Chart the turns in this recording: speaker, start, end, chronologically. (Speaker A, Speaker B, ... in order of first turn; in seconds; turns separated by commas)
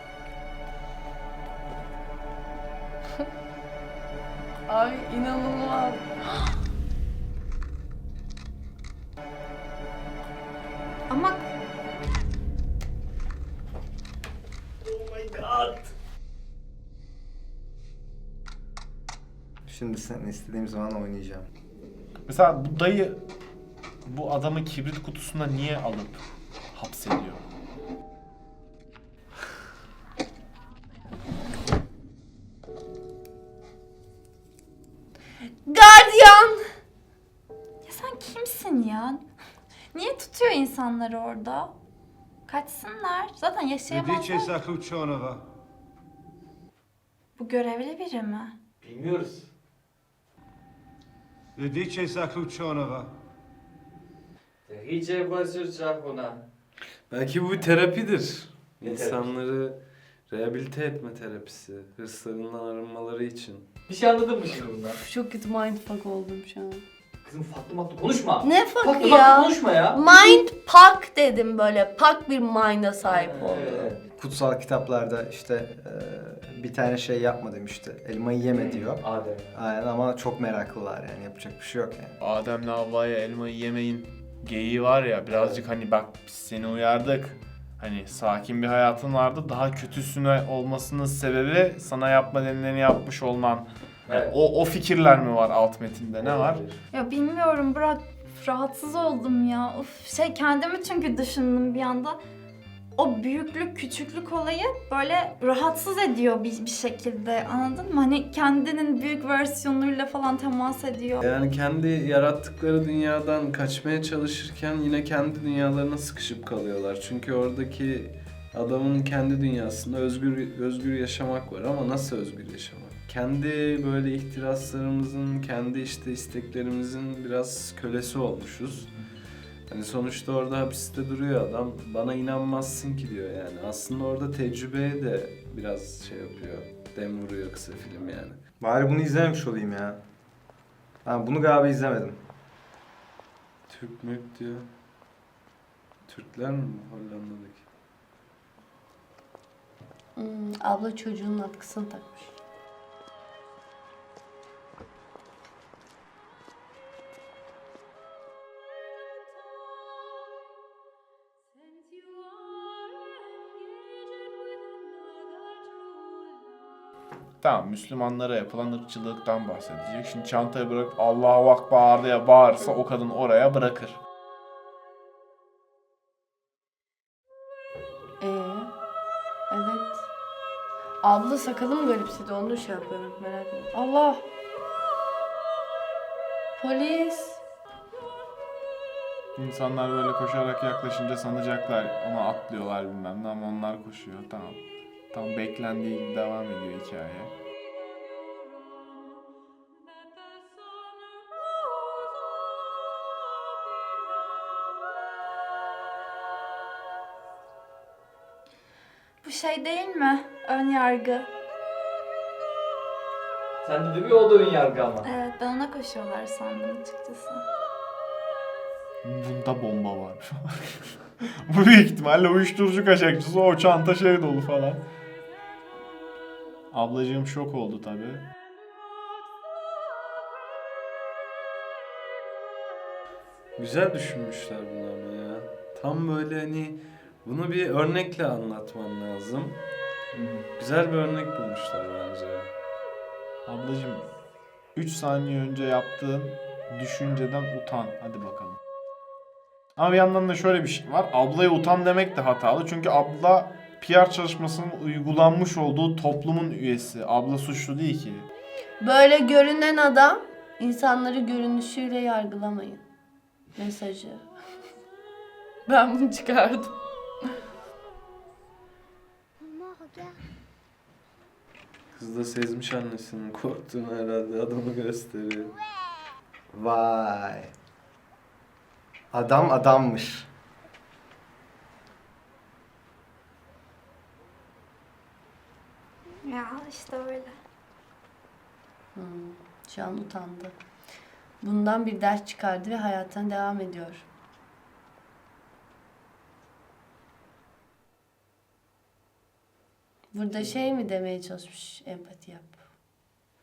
Speaker A: 4.7-6.2, Speaker B: 11.1-11.3, Speaker C: 14.8-15.9, Speaker D: 19.7-21.5, Speaker E: 22.3-23.2, Speaker E: 24.1-26.2, Speaker E: 26.7-27.4, Speaker A: 35.6-36.6, Speaker B: 37.9-39.2, Speaker B: 39.9-41.7, Speaker B: 42.5-44.5, Speaker F: 43.9-45.4, Speaker B: 47.4-48.5, Speaker C: 48.8-49.5, Speaker F: 51.5-53.1, Speaker C: 54.6-56.5, Speaker G: 57.1-63.7, Speaker C: 58.8-59.3, Speaker C: 63.9-65.0, Speaker A: 65.0-66.8, Speaker C: 67.2-70.4, Speaker A: 68.4-73.9, Speaker C: 73.0-74.0, Speaker D: 74.2-82.1, Speaker C: 78.5-79.5, Speaker E: 82.2-96.6, Speaker C: 85.3-85.6, Speaker C: 94.0-94.3, Speaker C: 96.2-96.8, Speaker B: 96.9-102.2, Speaker B: 103.0-111.2, Speaker G: 111.2-128.9, Speaker G: 129.7-138.4, Speaker D: 138.6-140.0, Speaker D: 141.0-142.2, Speaker G: 143.7-144.7, Speaker G: 146.1-147.7, Speaker A: 150.2-152.3, Speaker E: 167.4-174.0, Speaker A: 178.2-178.7, Speaker A: 179.5-180.0, Speaker A: 181.0-184.2, Speaker A: 186.6-187.4, Speaker E: 189.3-194.6, Speaker E: 195.1-197.3, Speaker B: 209.2-211.2, Speaker C: 213.6-215.0, Speaker B: 215.0-217.4, Speaker E: 219.0-224.8, Speaker E: 226.7-228.2, Speaker G: 233.6-239.6, Speaker C: 240.1-240.4, Speaker G: 240.6-242.5, Speaker E: 243.4-244.1, Speaker E: 244.8-248.6, Speaker E: 249.8-258.2, Speaker A: 258.8-262.8, Speaker A: 263.6-264.2, Speaker A: 265.6-266.7, Speaker G: 271.9-275.5, Speaker D: 276.5-277.5, Speaker D: 279.1-280.3, Speaker B: 286.2-287.3, Speaker A: 288.9-290.5, Speaker A: 291.4-294.0, Speaker A: 300.1-302.6